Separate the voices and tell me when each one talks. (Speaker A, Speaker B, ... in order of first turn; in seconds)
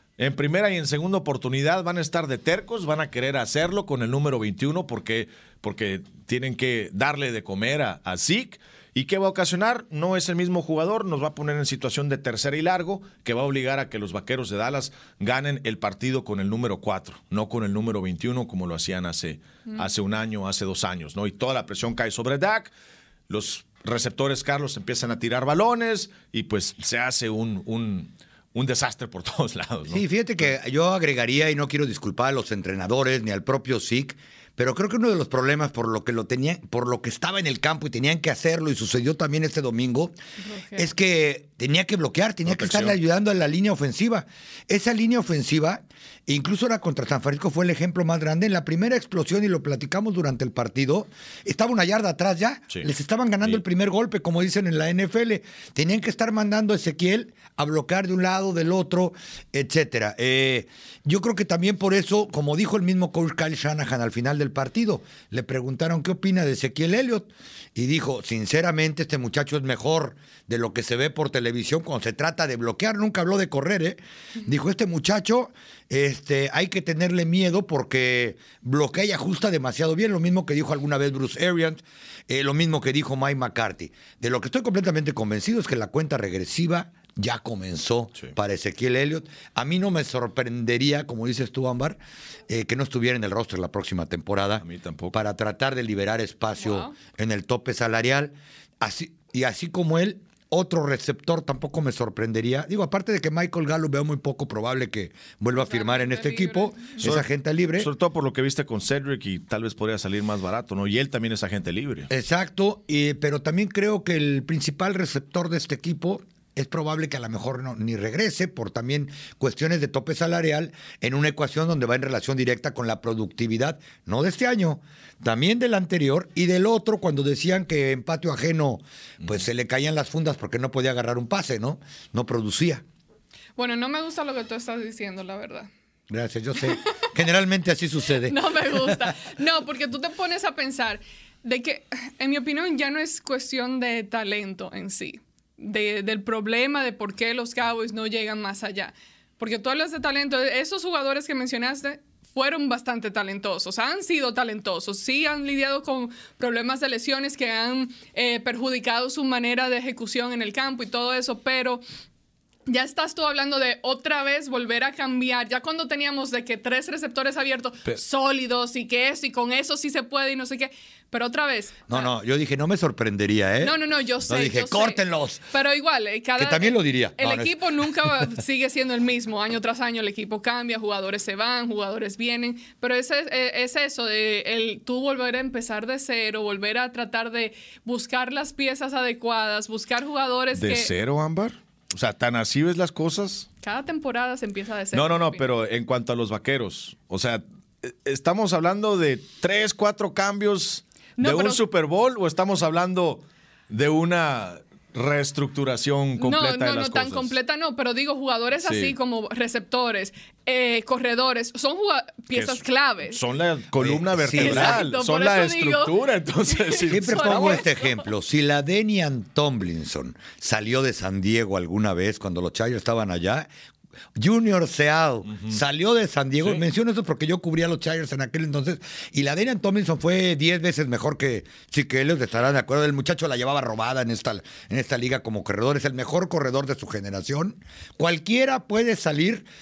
Speaker A: 0.2-22.7, 23.3-30.5, 42.5-43.0, 94.6-95.2, 107.0-112.1, 190.5-193.5, 194.9-207.3, 208.6-208.9, 212.3-217.6, 225.3-225.6
Speaker B: 29.9-40.1, 40.8-107.9, 112.1-132.8, 136.1-139.1, 171.9-175.4, 176.4-177.6, 213.8-214.8, 216.9-223.5, 224.1-239.5
Speaker C: 40.4-40.9, 96.6-96.9, 105.5-107.0, 133.6-135.7, 138.2-161.8, 162.7-172.1, 173.6-190.9, 193.6-195.5, 201.2-201.6, 206.2-213.2, 214.4-215.9, 216.4-218.0